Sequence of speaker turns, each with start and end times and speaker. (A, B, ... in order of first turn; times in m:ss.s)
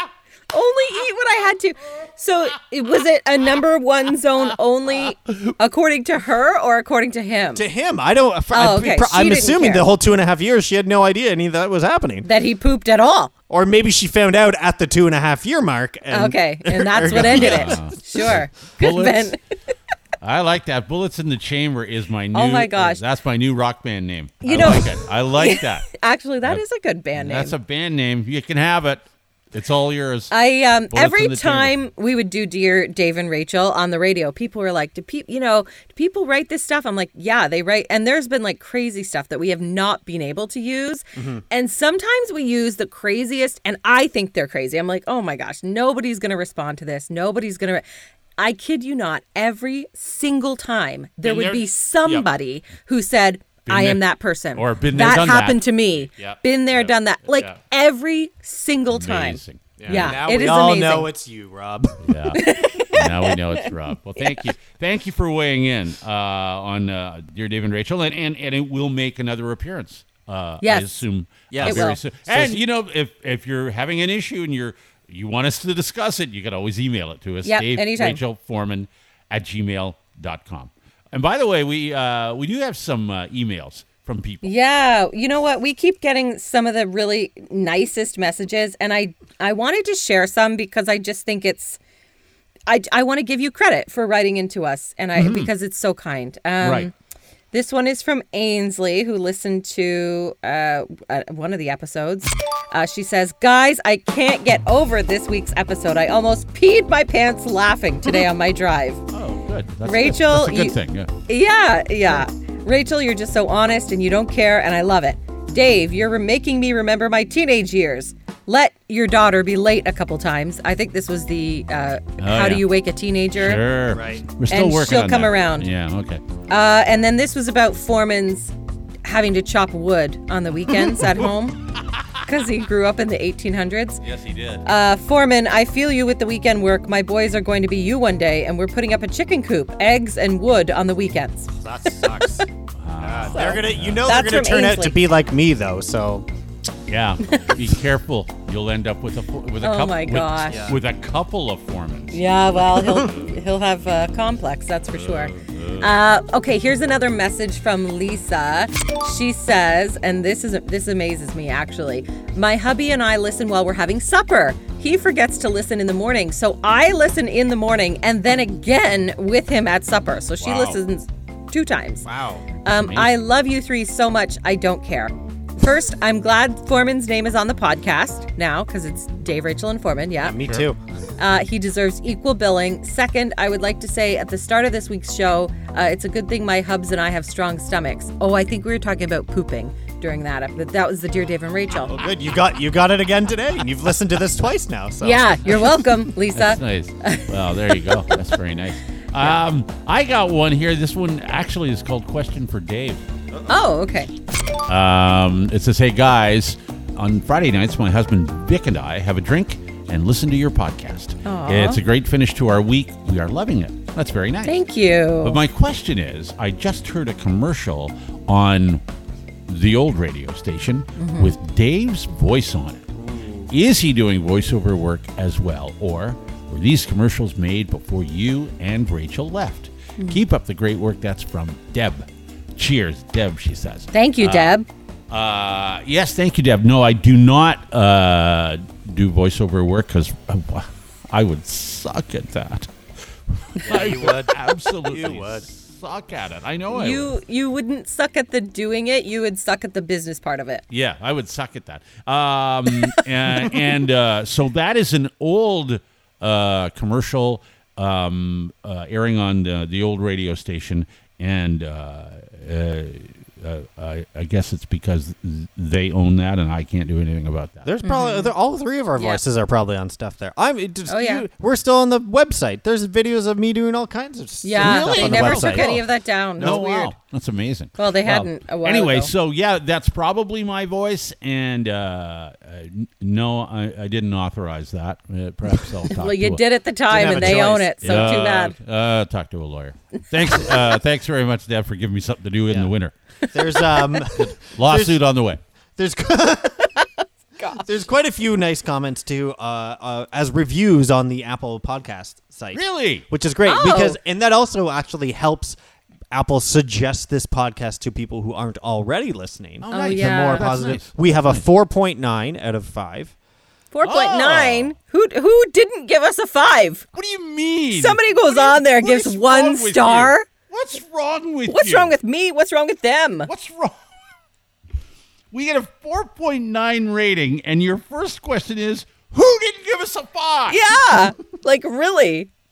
0:00.5-0:07.6 A
0:07.6-0:12.3 B
0:08.5-0:09.9 A
0:12.2-0:13.3 A
0:13.5-0:18.3 B
0:16.1-0:19.4 A
0:17.0-0:19.4 C
0:20.2-0:25.9 C
0:22.3-0:23.0 A
0:24.4-0:27.5 A
0:27.2-0:30.3 C
0:30.3-0:47.8 A
0:30.9-0:31.7 C
0:41.2-0:41.4 B
0:48.4-1:01.1 A
0:51.2-0:52.3 C
0:53.7-0:54.0 C
0:54.6-0:57.6 C
0:58.9-1:00.2 C
0:59.8-1:02.1 B
1:02.0-1:24.5 C
1:02.4-1:03.7 A
1:04.2-1:04.5 A
1:10.6-1:10.9 A
1:11.5-1:12.6 B
1:11.6-1:12.0 A
1:17.4-1:18.2 A
1:24.4-1:31.8 A
1:32.7-1:36.9 A
1:35.2-1:35.5 C
1:36.6-1:36.9 C
1:37.5-1:49.0 A
1:49.1-1:51.1 C
1:49.8-1:50.8 A
1:51.3-2:03.6 A
2:02.2-2:02.7 C
2:03.4-2:06.2 C
2:03.9-2:04.2 B
2:04.5-2:05.7 A
2:06.5-2:08.5 A
2:09.0-2:11.6 A
2:12.2-2:14.0 A
2:14.0-2:14.6 C
2:14.6-2:22.5 A
2:21.6-2:22.5 B
2:22.8-2:24.0 C
2:23.0-2:26.3 B
2:23.3-2:25.0 A
2:26.9-2:32.2 C
2:29.6-2:30.7 A
2:30.5-2:30.8 B
2:32.1-2:52.1 A
2:35.0-2:35.9 C
2:50.4-2:50.8 C
2:52.0-2:52.5 B
2:52.6-3:00.4 A
2:52.7-2:53.2 C
3:00.2-3:00.8 B
3:01.2-3:12.0 A
3:11.9-3:15.3 B
3:15.0-3:18.3 A
3:16.3-3:23.0 C
3:23.5-3:24.1 A
3:24.7-3:34.6 C
3:31.2-3:31.8 A
3:34.5-3:35.4 A
3:35.2-3:38.8 C
3:39.5-3:42.9 C
3:41.0-3:41.4 A
3:43.5-3:54.5 C
3:53.9-3:54.7 A
3:55.1-4:02.7 C
4:03.4-4:07.1 C
4:03.6-4:05.5 B
4:06.7-4:10.6 A
4:10.7-4:27.7 C
4:27.6-4:35.8 B
4:27.8-4:28.3 A
4:29.0-4:29.2 A
4:30.9-4:31.3 A
4:34.4-4:36.9 A
4:34.6-4:35.9 C
4:36.4-4:46.4 C
4:36.4-4:36.7 B
4:37.8-4:39.1 A
4:45.9-4:48.6 A
4:46.9-4:48.2 B
4:47.1-4:52.9 C
4:53.2-4:54.0 A
4:53.3-4:55.0 B
4:54.1-4:55.4 C
4:55.8-4:56.7 B
4:57.4-4:57.7 A
4:57.5-5:05.6 B
5:02.5-5:03.1 C
5:03.4-5:04.0 A
5:06.1-5:13.2 B
5:09.6-5:11.4 C
5:09.7-5:10.7 A
5:13.7-5:16.9 A
5:13.8-5:14.7 C
5:16.9-5:21.9 C
5:17.7-5:20.3 A
5:21.5-5:23.3 A
5:23.3-5:23.8 C
5:25.3-5:30.6 C
5:30.5-5:32.3 A